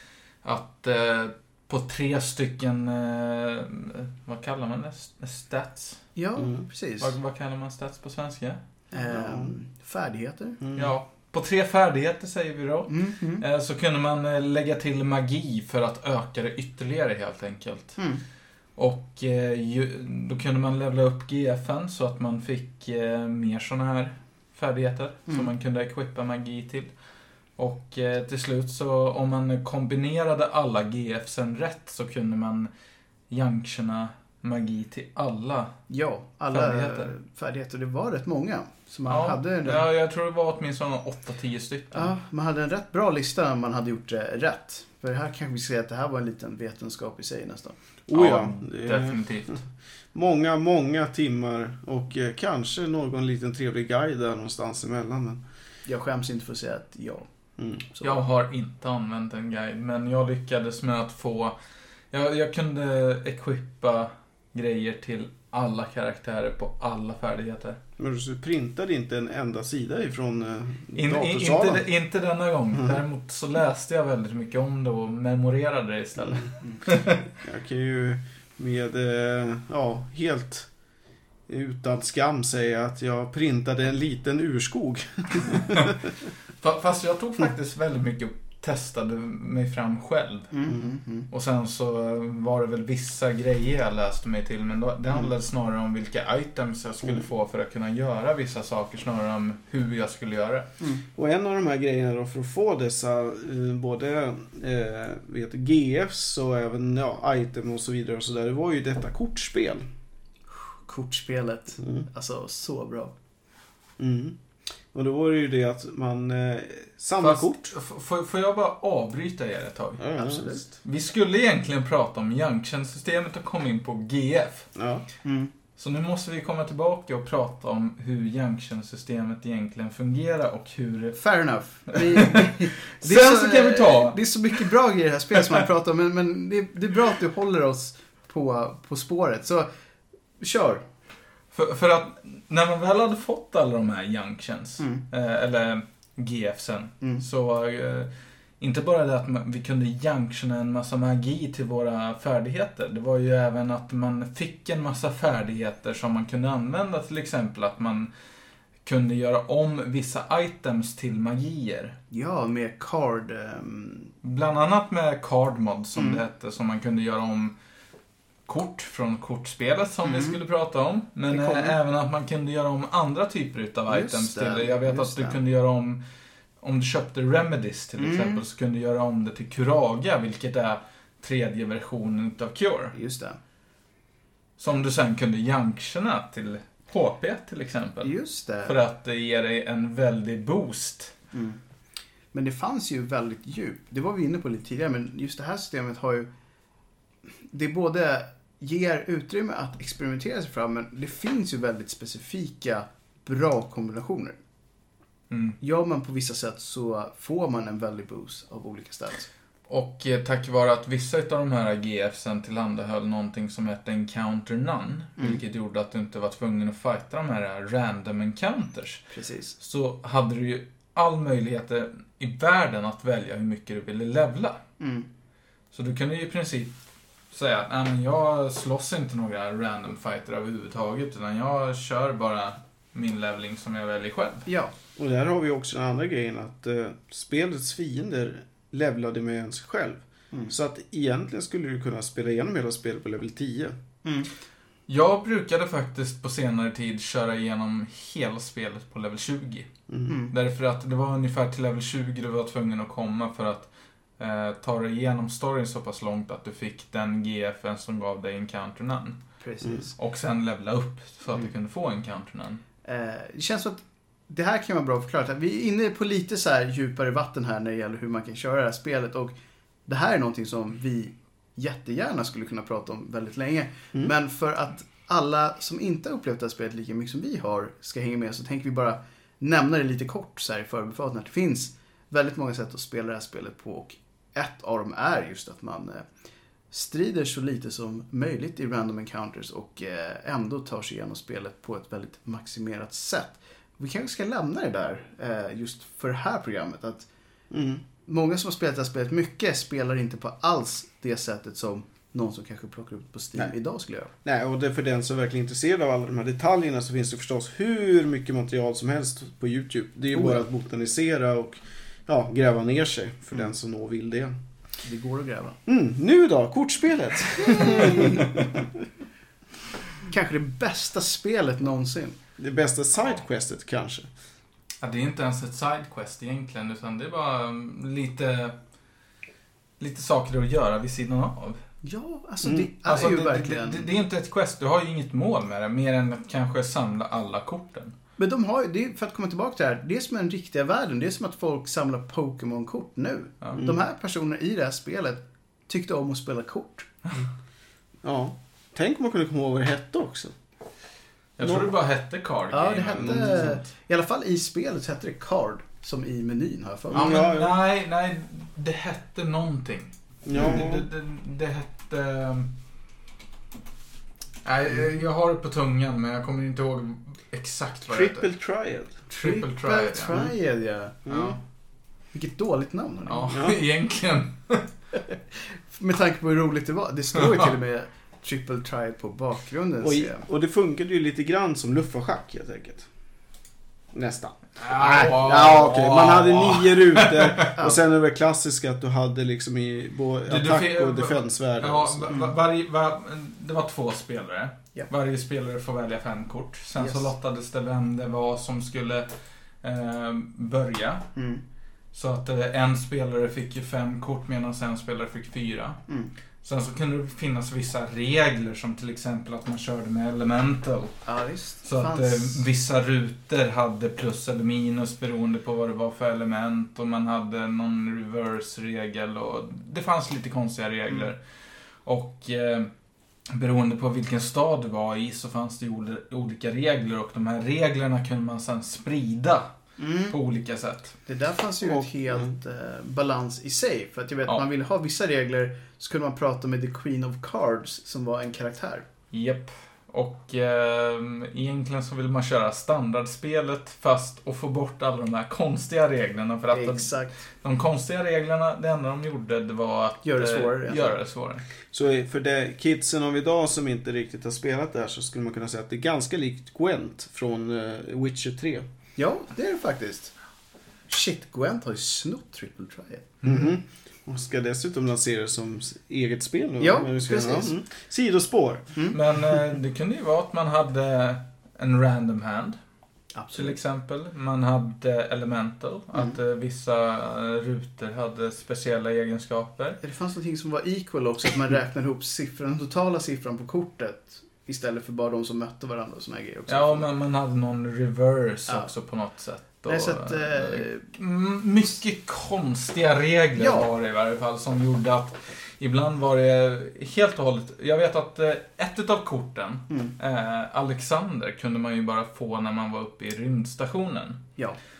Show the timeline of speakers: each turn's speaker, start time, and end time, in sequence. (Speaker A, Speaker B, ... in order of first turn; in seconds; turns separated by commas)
Speaker A: 0.4-6.0, Speaker B: 6.2-7.1, Speaker C: 6.4-6.7, Speaker A: 7.0-8.6, Speaker B: 8.9-10.6, Speaker C: 9.1-9.5, Speaker C: 10.6-10.9, Speaker A: 10.8-18.0, Speaker B: 12.9-13.4, Speaker B: 18.0-18.2, Speaker A: 18.8-26.9, Speaker A: 27.6-32.7, Speaker A: 33.3-35.8, Speaker B: 35.9-39.9, Speaker A: 36.5-37.1, Speaker A: 39.1-42.1, Speaker B: 41.9-47.8, Speaker C: 48.1-49.6, Speaker A: 48.1-49.6, Speaker C: 50.1-55.4, Speaker B: 55.9-57.3, Speaker C: 57.6-57.9, Speaker B: 57.9-58.2, Speaker A: 58.0-61.5, Speaker A: 62.1-67.8, Speaker C: 68.0-71.8, Speaker A: 71.0-77.2, Speaker C: 77.4-80.7, Speaker C: 81.5-85.9, Speaker A: 86.6-90.5, Speaker B: 90.5-91.3, Speaker A: 91.3-100.7, Speaker C: 101.2-109.9, Speaker B: 110.5-113.1, Speaker C: 111.8-112.1, Speaker C: 114.0-114.4, Speaker C: 114.9-117.7, Speaker A: 117.2-120.1, Speaker C: 120.0-120.6, Speaker B: 120.2-120.6, Speaker A: 120.8-124.7, Speaker C: 124.8-125.0, Speaker B: 125.2-125.5, Speaker A: 125.8-131.2, Speaker B: 131.2-139.7, Speaker A: 131.9-134.7, Speaker B: 140.4-140.8, Speaker A: 141.5-158.1, Speaker A: 158.8-162.0, Speaker B: 162.1-164.1, Speaker A: 164.2-167.6, Speaker B: 165.9-166.2, Speaker A: 168.5-176.0, Speaker B: 170.0-170.4, Speaker B: 171.3-171.8, Speaker B: 173.9-175.4, Speaker A: 176.6-182.9, Speaker B: 178.0-178.4, Speaker B: 182.9-183.4, Speaker A: 184.6-188.1, Speaker B: 188.0-188.7, Speaker A: 188.6-191.1, Speaker B: 191.3-191.6, Speaker B: 192.3-196.3, Speaker B: 197.3-204.4, Speaker A: 205.3-205.6, Speaker B: 205.6-209.3, Speaker A: 209.7-219.1, Speaker B: 219.1-219.6, Speaker A: 219.6-224.6, Speaker B: 224.8-225.1, Speaker A: 225.7-226.7, Speaker A: 227.3-234.5, Speaker B: 234.5-234.7, Speaker C: 234.9-243.8, Speaker B: 244.0-244.3, Speaker A: 244.9-249.7, Speaker C: 249.9-250.1, Speaker B: 250.1-250.3, Speaker A: 250.3-259.2, Speaker B: 259.4-259.9, Speaker A: 260.0-262.6, Speaker B: 262.8-269.4, Speaker B: 269.9-286.1, Speaker B: 286.7-297.1, Speaker C: 297.5-297.8, Speaker B: 298.0-304.1, Speaker C: 304.2-314.4, Speaker B: 310.1-310.4, Speaker B: 314.8-315.6, Speaker C: 315.6-318.7, Speaker B: 317.4-318.4, Speaker B: 320.0-322.2, Speaker C: 322.4-324.1, Speaker A: 324.8-328.6, Speaker A: 329.8-331.6, Speaker B: 331.8-333.9, Speaker A: 332.9-337.9, Speaker B: 338.2-346.9, Speaker C: 348.0-350.4, Speaker A: 351.4-353.6, Speaker C: 351.4-351.7, Speaker B: 352.5-357.2, Speaker C: 353.0-353.6, Speaker A: 356.9-362.5, Speaker C: 356.9-357.6, Speaker C: 360.2-360.9, Speaker B: 360.4-360.6, Speaker A: 364.4-368.3, Speaker C: 367.9-368.9, Speaker A: 369.1-370.2, Speaker B: 369.2-371.0, Speaker C: 371.1-371.4, Speaker A: 371.1-371.4, Speaker B: 372.1-373.4, Speaker A: 373.1-374.7, Speaker C: 373.3-373.6, Speaker B: 375.3-380.2, Speaker A: 377.2-377.5, Speaker C: 379.8-382.9, Speaker C: 383.9-392.3, Speaker A: 384.6-387.5, Speaker A: 390.3-399.1, Speaker B: 396.8-397.1, Speaker A: 399.6-401.1, Speaker B: 401.1-401.4, Speaker A: 401.9-405.8, Speaker B: 405.9-406.1, Speaker A: 406.4-411.1, Speaker B: 411.1-412.4, Speaker A: 411.6-421.2, Speaker A: 421.8-422.7, Speaker A: 423.3-429.5, Speaker B: 429.8-430.2, Speaker A: 430.1-430.9, Speaker B: 431.1-438.9, Speaker C: 431.6-432.3, Speaker A: 439.1-451.4, Speaker B: 446.5-447.1, Speaker B: 450.0-451.0, Speaker C: 451.7-458.6, Speaker B: 458.9-460.1, Speaker B: 460.9-463.2, Speaker C: 463.2-468.7, Speaker A: 463.2-463.5, Speaker B: 466.6-467.6, Speaker A: 468.9-472.6, Speaker B: 473.1-473.6, Speaker A: 473.3-479.8, Speaker B: 479.8-486.9, Speaker A: 486.5-504.2, Speaker B: 489.7-490.9, Speaker B: 493.4-493.7